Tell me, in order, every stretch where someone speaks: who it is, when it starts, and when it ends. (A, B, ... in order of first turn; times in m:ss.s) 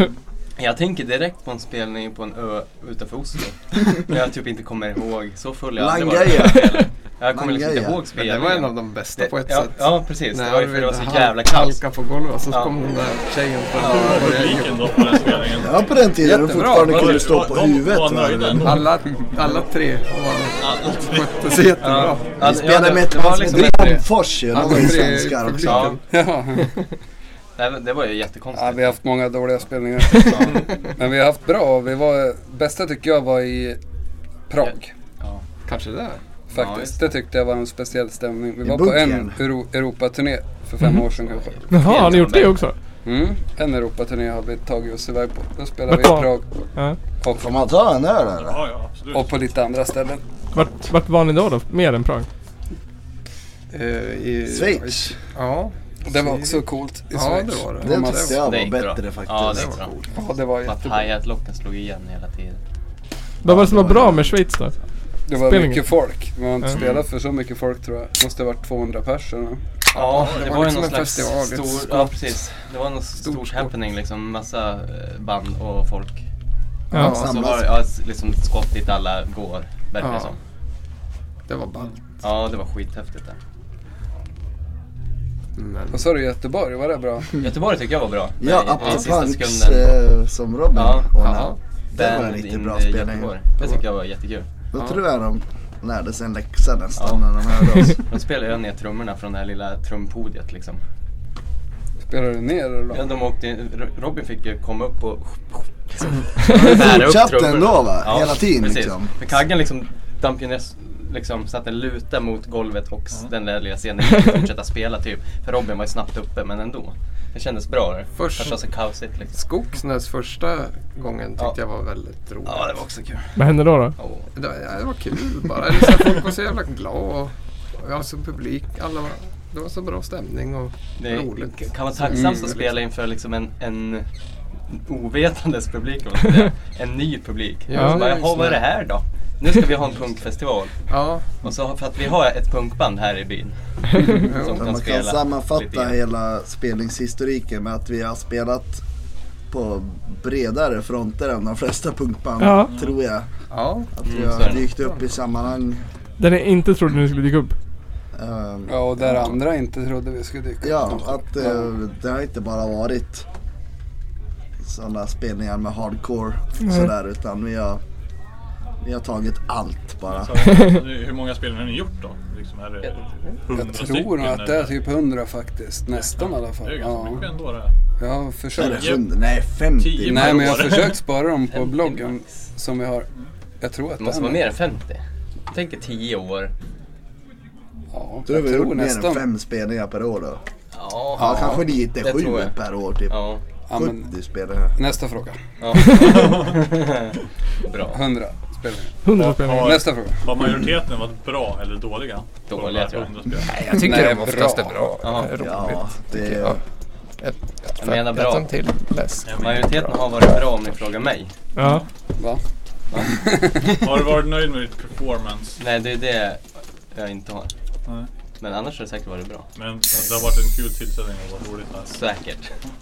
0:00.6-0:11.8 A
0:05.8-0:06.8 B
0:07.3-0:08.0 B
0:08.2-0:15.4 C
0:12.5-0:12.8 A
0:13.8-0:14.3 A
0:13.8-0:15.8 D
0:15.6-0:18.9 B
0:16.2-0:17.3 E
0:16.7-0:19.1 D
0:18.6-0:22.4 C
0:20.6-0:21.7 D
0:21.8-0:24.0 A
0:22.4-0:26.0 B
0:24.5-0:26.0 C
0:25.6-0:26.0 A
0:26.1-0:26.7 E
0:27.6-0:28.9 A
0:28.5-0:33.8 E
0:34.5-0:34.9 E
0:34.6-0:35.4 A
0:35.6-0:36.2 C
0:36.5-0:41.9 E
0:36.5-0:37.1 A
0:38.6-0:39.4 B
0:41.3-0:42.6 A
0:41.7-0:42.8 F
0:43.0-0:46.6 E
0:45.9-0:47.0 F
0:47.4-0:48.6 B
0:48.4-0:49.4 D
0:49.1-0:50.2 E
0:50.5-0:52.3 F
0:53.7-0:58.4 C
0:54.5-0:55.2 B
0:56.0-0:58.4 E
0:57.8-0:59.9 B
0:58.4-0:59.9 A
0:59.5-0:59.8 C
1:00.1-1:01.1 E
1:00.6-1:02.6 A
1:03.4-1:04.3 B
1:03.4-1:04.7 F
1:05.3-1:09.6 E
1:05.4-1:05.8 F
1:06.7-1:07.0 A
1:09.9-1:12.2 C
1:09.9-1:16.2 A
1:10.0-1:10.7 D
1:13.2-1:13.7 C
1:16.9-1:17.3 F
1:16.9-1:17.7 B
1:17.0-1:17.3 C
1:17.1-1:20.4 A
1:20.0-1:20.3 C
1:21.5-1:22.0 C
1:22.2-1:23.4 A
1:25.6-1:26.0 C
1:25.9-1:27.3 E
1:27.4-1:30.0 A
1:28.4-1:33.3 B
1:30.7-1:31.4 A
1:31.2-1:31.6 C
1:31.9-1:34.5 A
1:34.7-1:38.0 B
1:37.0-1:37.2 A
1:37.8-1:40.8 A
1:42.1-1:43.1 E
1:42.9-1:59.4 A
1:46.5-1:49.1 B
1:58.2-1:58.6 C
1:59.3-2:02.8 C
2:02.4-2:03.3 A
2:03.4-2:04.0 F
2:04.0-2:04.3 A
2:04.4-2:12.8 C
2:11.0-2:14.1 A
2:12.1-2:12.5 E
2:14.7-2:20.7 A
2:17.7-2:18.6 C
2:20.9-2:21.3 C
2:21.4-2:26.0 A
2:24.2-2:24.6 C
2:24.5-2:28.8 B
2:29.5-2:33.3 B
2:32.4-2:32.7 F
2:32.6-2:33.0 D
2:33.5-2:33.9 C
2:33.9-2:35.8 B
2:34.0-2:34.7 A
2:36.2-2:37.5 F
2:38.1-2:39.4 B
2:38.7-2:41.7 E
2:40.6-2:43.3 B
2:44.6-2:47.8 B
2:48.8-2:50.4 B
2:50.1-2:54.8 D
2:53.5-2:57.3 E
2:55.9-2:57.7 D
2:58.0-2:59.0 E
2:58.6-2:59.1 D
2:58.6-3:00.5 B
2:59.8-3:01.0 D
3:00.0-3:03.1 E
3:01.5-3:02.2 A
3:03.6-3:04.4 E
3:04.0-3:06.5 A
3:07.9-3:09.2 E
3:08.3-3:10.4 B
3:10.7-3:12.6 A
3:11.2-3:13.2 B
3:13.1-3:13.4 A
3:13.7-3:14.1 E
3:13.7-3:14.8 B
3:14.8-3:15.4 E
3:15.6-3:18.0 A
3:16.1-3:16.6 D
3:17.9-3:19.0 E
3:19.0-3:19.8 F
3:19.1-3:23.8 D
3:19.6-3:20.2 E
3:22.5-3:23.1 A
3:23.5-3:26.6 C
3:23.7-3:24.9 E
3:25.0-3:25.3 A
3:25.4-3:26.6 B
3:27.2-3:30.2 C
3:27.8-3:28.5 A
3:29.2-3:29.7 D
3:29.4-3:31.3 A
3:31.6-3:31.8 F
3:31.6-3:31.9 D
3:33.1-3:33.6 E
3:33.7-3:35.6 D
3:35.6-3:37.5 A
3:38.4-3:40.1 A
3:39.6-3:42.0 D
3:41.9-3:42.6 A